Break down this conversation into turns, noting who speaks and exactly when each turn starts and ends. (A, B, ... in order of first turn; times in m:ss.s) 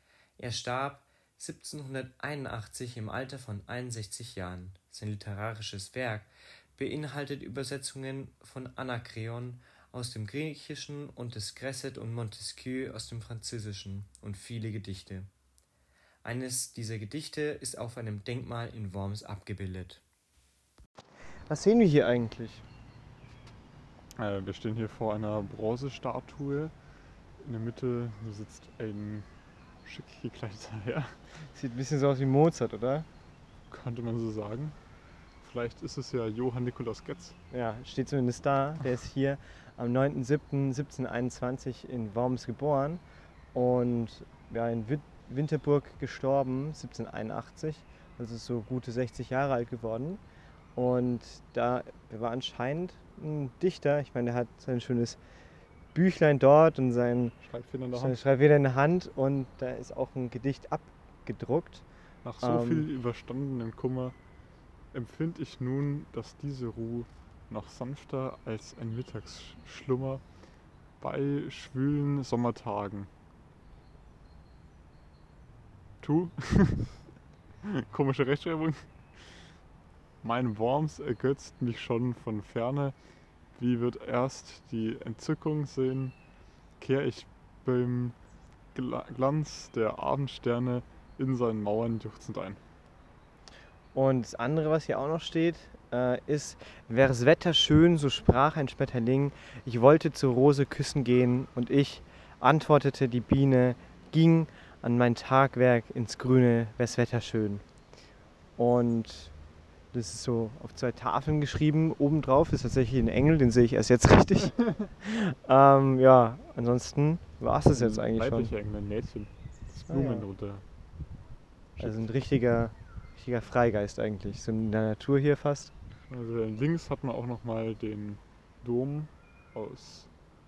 0:00.4-0:15.3 A
0:16.2-0:20.0 A
0:21.5-0:22.6 B
0:24.2-0:26.7 C
0:27.4-0:29.3 C
0:29.8-0:31.1 C
0:31.5-0:33.0 B
0:33.7-0:34.7 C
0:35.4-0:37.3 C
0:37.5-0:43.0 B
0:43.5-0:50.2 B
0:50.8-0:55.2 B
0:55.9-0:57.3 B
0:57.4-0:58.2 C
0:57.9-1:01.8 B
1:02.2-1:04.2 C
1:02.4-1:02.9 B
1:04.9-1:10.2 C
1:11.0-1:13.1 C
1:16.0-1:16.9 C
1:17.6-1:19.3 C
1:20.2-1:22.9 C
1:23.6-1:26.1 C
1:26.8-1:28.2 C
1:28.7-1:32.6 C
1:33.9-1:47.6 B
1:48.6-1:49.3 B
1:49.9-1:58.5 B
1:57.7-2:00.6 C
1:59.9-2:00.2 B
2:01.8-2:05.7 B
2:06.1-2:10.1 C